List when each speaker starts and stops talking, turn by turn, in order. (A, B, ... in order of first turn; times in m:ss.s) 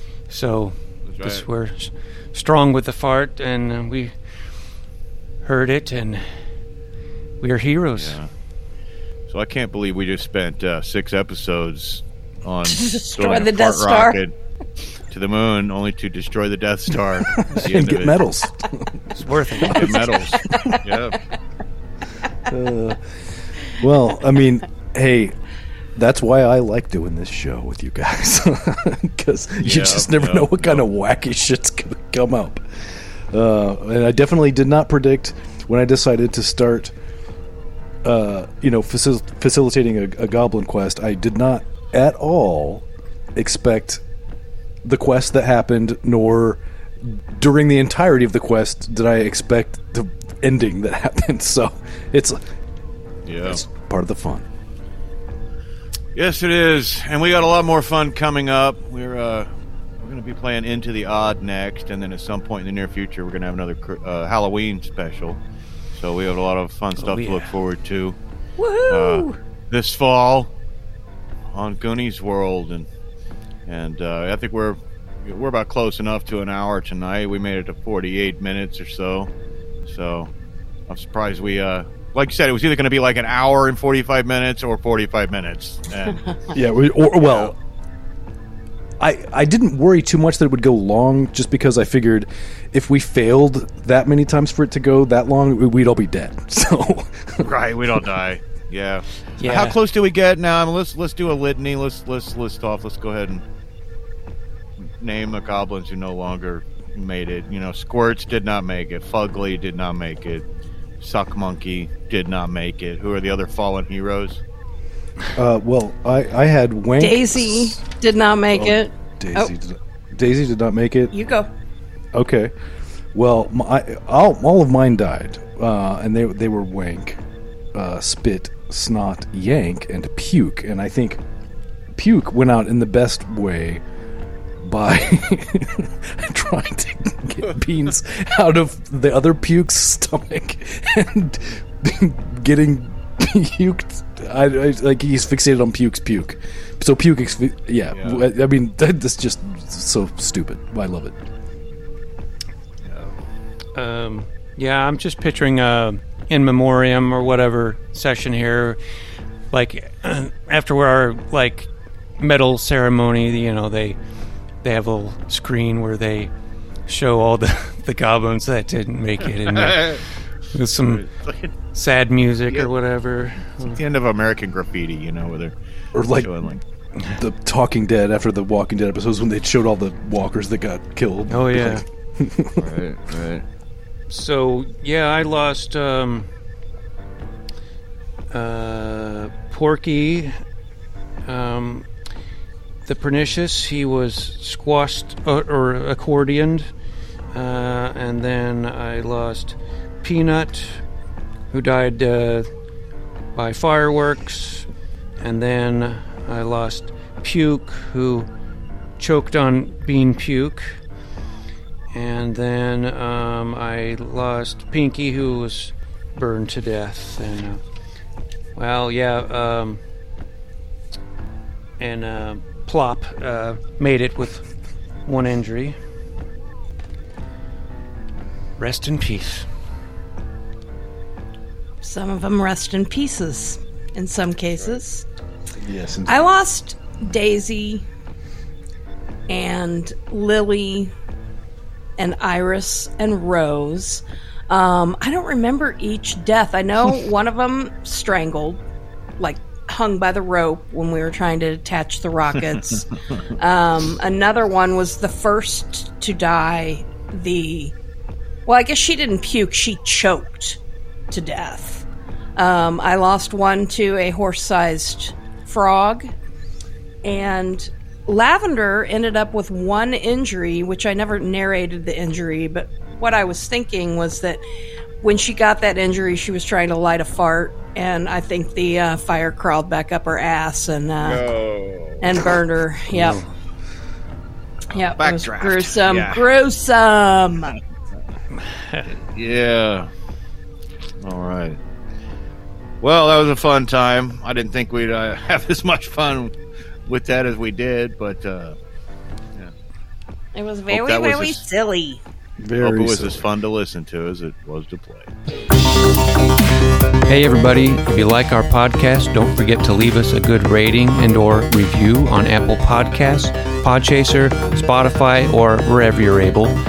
0:00.3-0:04.4 A
0:01.1-0:01.4 B
0:05.4-0:06.4 A
0:07.4-0:08.2 A
0:08.0-0:08.3 B
0:09.3-0:14.3 B
0:12.6-0:14.2 C
0:15.1-0:18.2 B
0:17.3-0:20.8 D
0:19.1-0:20.2 A
0:19.7-0:21.2 B
0:19.8-0:21.0 C
0:22.4-0:25.3 D
0:26.0-0:36.9 D
0:29.6-0:30.8 B
0:38.0-0:44.0 D
0:44.8-0:52.4 D
0:53.2-0:53.6 B
0:53.4-0:54.4 D
0:56.1-1:05.4 B
1:05.9-1:08.2 B
1:07.0-1:07.5 A
1:08.6-1:09.4 C
1:08.9-1:10.5 B
1:11.5-1:12.9 B
1:13.7-1:19.3 B
1:19.8-1:20.3 B
1:20.9-1:26.3 B
1:26.5-1:27.6 D
1:27.1-1:27.5 B
1:29.0-1:37.5 D
1:37.4-1:43.4 B
1:39.4-1:39.8 A
1:44.8-1:50.4 B
1:51.0-1:54.4 B
1:55.3-1:57.8 D
1:57.0-1:59.5 C
1:58.5-2:01.1 D
2:01.1-2:01.5 C
2:02.1-2:02.5 D
2:03.1-2:07.2 D
2:07.7-2:11.2 D
2:11.9-2:13.8 D
2:14.6-2:31.2 D
2:27.9-2:28.2 B
2:32.8-2:33.2 B
2:33.7-2:38.8 A
2:39.5-2:44.0 A
2:44.6-2:46.3 A
2:46.8-2:51.0 A
2:49.5-2:50.0 B
2:50.9-2:51.5 B
2:51.7-2:53.8 A
2:53.8-2:55.5 B
2:55.9-2:56.4 D
2:56.1-2:56.6 B
2:57.1-3:02.7 D
3:01.3-3:01.8 A
3:02.6-3:03.4 B
3:04.1-3:06.3 A
3:08.3-3:10.4 A
3:11.2-3:11.9 A
3:12.8-3:16.7 A
3:17.3-3:20.8 A
3:21.5-3:22.5 A
3:23.3-3:24.7 A
3:25.2-3:28.3 A
3:29.0-3:30.8 A
3:31.9-3:37.6 A
3:38.6-3:39.8 A
3:41.8-3:44.4 A
3:45.0-3:45.8 A
3:48.6-3:49.5 A
3:51.8-3:55.0 C
3:55.6-3:56.3 D
3:56.1-3:57.8 C
3:59.3-4:00.9 C
4:02.0-4:08.6 C
4:09.2-4:17.7 C
4:18.4-4:20.6 C
4:21.1-4:21.8 C
4:22.4-4:26.1 C
4:27.0-4:34.4 C
4:35.0-4:41.2 C
4:41.0-4:42.3 B
4:42.0-4:43.2 C
4:42.9-4:43.3 A
4:44.7-4:47.6 C
4:44.8-4:46.2 B
4:48.3-4:48.9 A
4:48.9-4:49.9 B
4:51.0-4:51.6 B
4:52.8-4:56.3 B
4:56.9-4:58.6 B
5:00.3-5:02.0 C
5:00.7-5:01.4 B
5:02.4-5:03.2 D
5:02.6-5:05.1 B
5:07.1-5:16.5 A